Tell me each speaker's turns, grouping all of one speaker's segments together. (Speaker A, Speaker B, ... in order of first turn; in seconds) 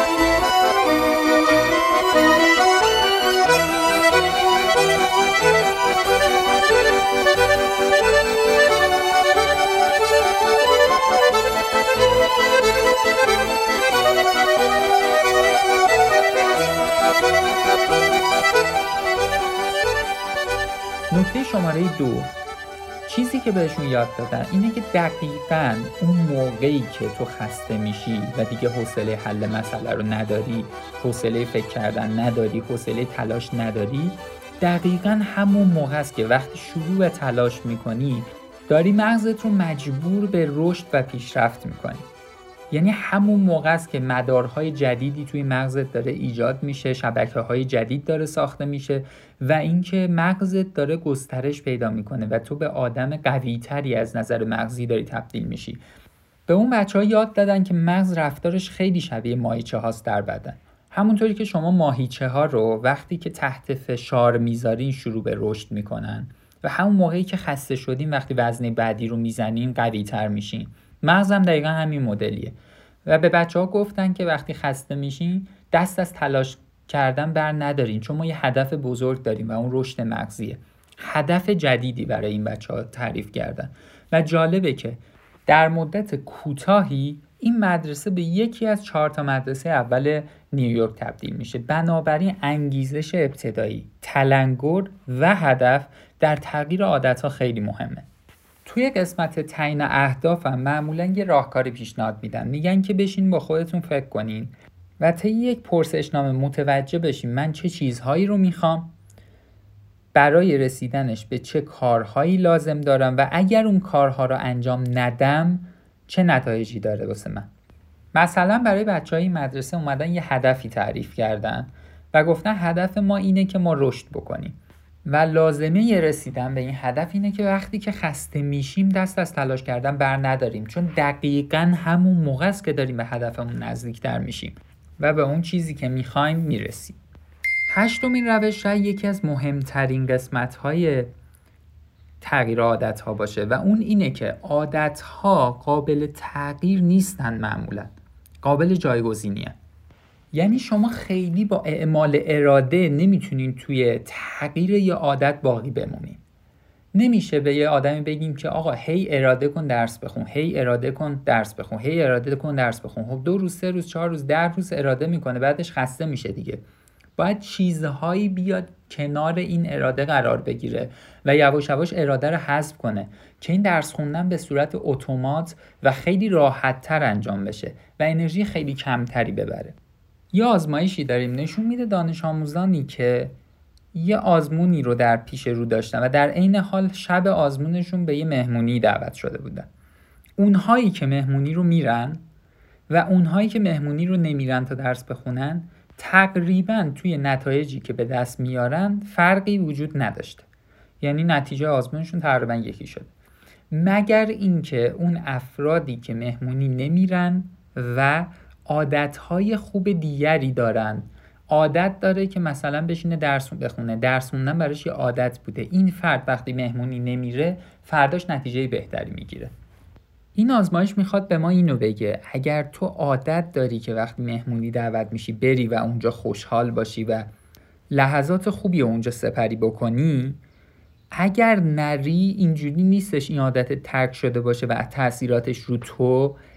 Speaker A: 21.1-22.3, 23.1-42.1, 42.7-55.8, 56.5-72.5, 73.1-98.1, 98.7-108.9, 110.1-117.5, 118.1-137.0, 137.7-141.1, 142.2-149.6, 150.3-156.2, 156.9-166.6, 167.2-179.8, 180.3-183.3, 183.9-189.7, 190.4-192.2, 192.9-200.4, 201.0-203.1, 203.7-219.5, 220.3-227.3, 227.9-230.4, 231.1-236.4